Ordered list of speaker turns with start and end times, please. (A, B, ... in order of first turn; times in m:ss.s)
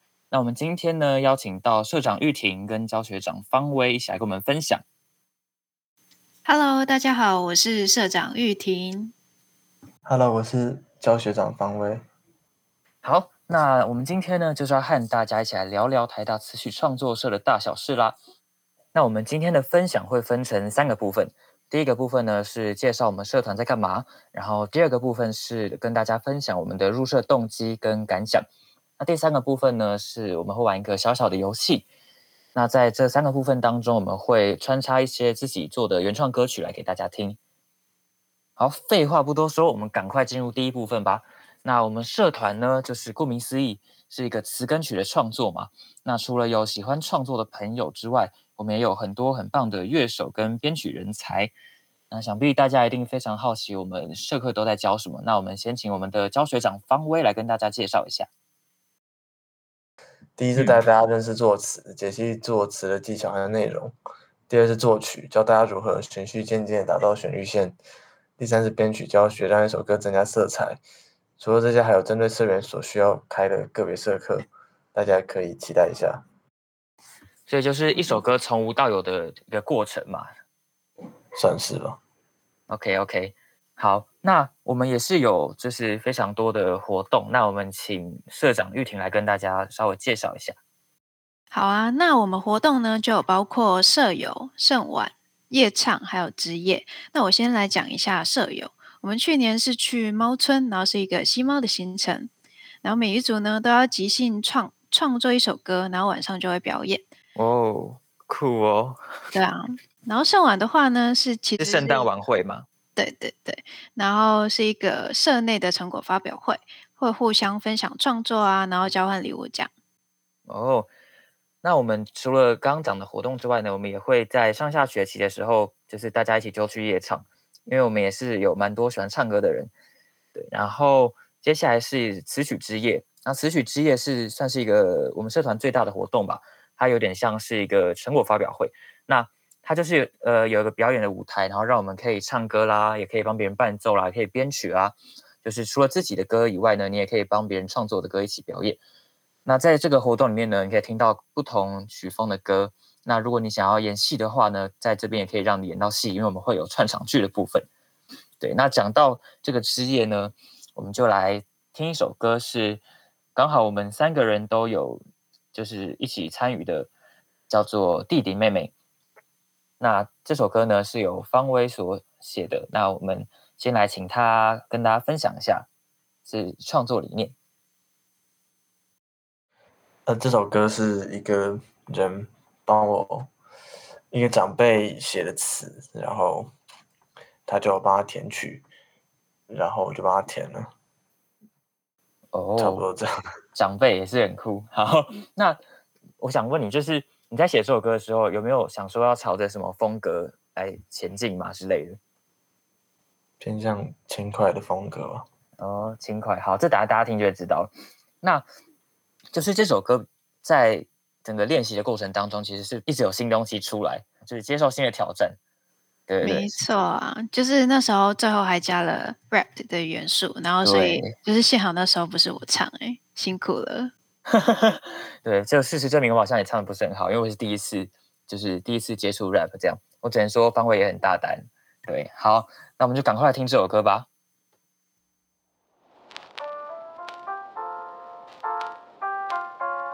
0:00.3-0:04.8 A
0:06.4-0:09.1 B
0:10.0-0:12.0 C
0:13.0-0:18.2 A
0:18.9-0:28.5 A
0:29.0-0:31.9 A
0:32.5-0:37.4 A
0:38.6-0:51.5 A
0:52.1-0:58.3 A
1:00.4-1:04.0 C
1:04.5-1:07.8 C
1:08.4-1:10.8 C
1:11.4-1:16.2 C
1:17.5-1:20.3 A
1:21.3-1:22.0 C
1:22.7-1:30.6 A
1:31.5-1:42.3 B
1:42.8-1:47.0 B
1:47.3-1:49.0 A
1:49.3-1:52.1 B
1:51.6-1:52.6 A
1:53.0-1:59.7 B
2:00.5-2:00.9 A
2:01.6-2:09.7 A
2:10.3-2:28.8 A
2:29.4-2:37.7 A
2:38.4-2:42.8 A
2:43.3-2:45.0 A
2:45.5-2:46.9 A
2:47.5-2:48.7 A
2:49.8-2:55.7 A
2:56.2-2:57.3 A
3:00.1-3:03.3 C
3:04.1-3:06.5 C
3:07.4-3:08.6 C
3:09.5-3:10.7 C
3:12.3-3:12.8 A
3:12.6-3:13.1 C
3:13.5-3:15.6 A
3:16.2-3:22.0 A
3:23.4-3:25.2 C
3:25.6-3:27.7 A
3:29.3-3:35.4 A
3:36.1-3:36.5 A
3:36.2-3:43.9 B
3:40.6-3:41.1 A
3:44.3-3:54.1 A